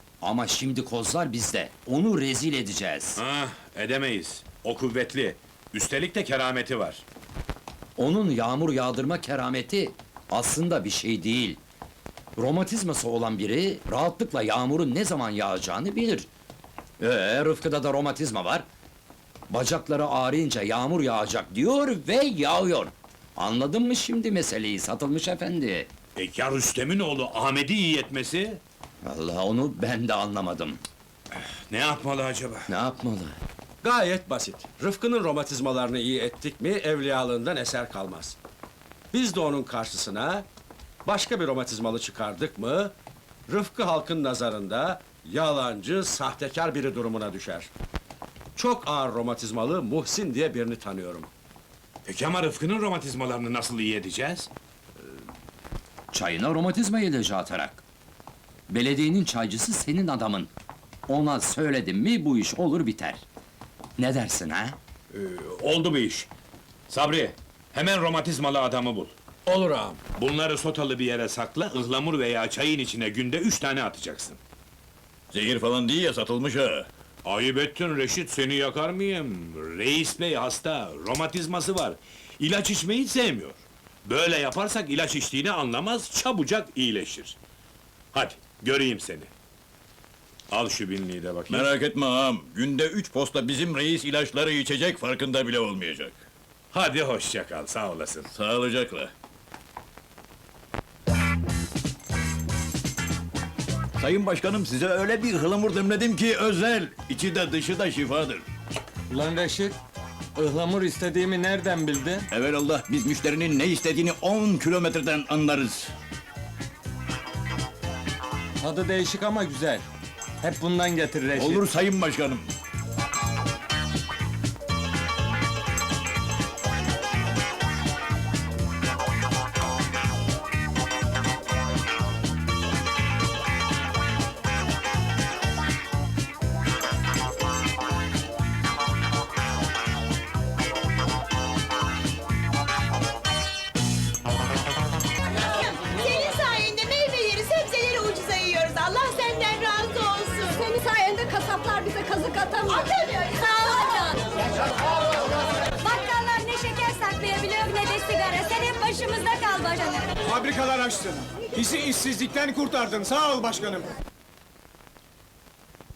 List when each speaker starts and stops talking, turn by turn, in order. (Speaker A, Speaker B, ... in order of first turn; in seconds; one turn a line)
Speaker A: 0.2-3.2
Speaker B: 3.2-7.0
Speaker A: 8.0-11.6
Speaker A: 12.4-16.3
Speaker A: 17.0-18.7
Speaker A: 19.5-25.9
Speaker B: 26.2-28.6
Speaker A: 29.0-30.8
Speaker B: 31.4-32.7
Speaker A: 32.7-33.4
Speaker C: 33.8-38.4
Speaker C: 39.1-40.5
Speaker C: 41.0-42.9
Speaker C: 43.5-47.7
Speaker C: 48.6-51.3
Speaker B: 52.1-54.5
Speaker A: 56.1-57.8
Speaker A: 58.7-60.5
Speaker A: 61.1-63.2
Speaker A: 64.0-64.8
Speaker B: 65.1-66.3
Speaker B: 66.9-74.4
Speaker D: 75.3-76.9
Speaker B: 77.2-87.4
Speaker B: 88.1-89.3
Speaker B: 90.5-91.7
Speaker D: 91.5-96.2
Speaker B: 96.7-98.3
Speaker D: 98.3-99.1
Speaker D: 104.0-108.4
Speaker E: 109.1-109.8
Speaker E: 110.3-112.3
Speaker D: 112.3-115.9
Speaker E: 118.6-119.8
Speaker E: 120.4-121.7
Speaker D: 121.3-122.5
Speaker F: 145.4-154.2
Speaker F: 155.8-160.2
Speaker G: 160.3-163.8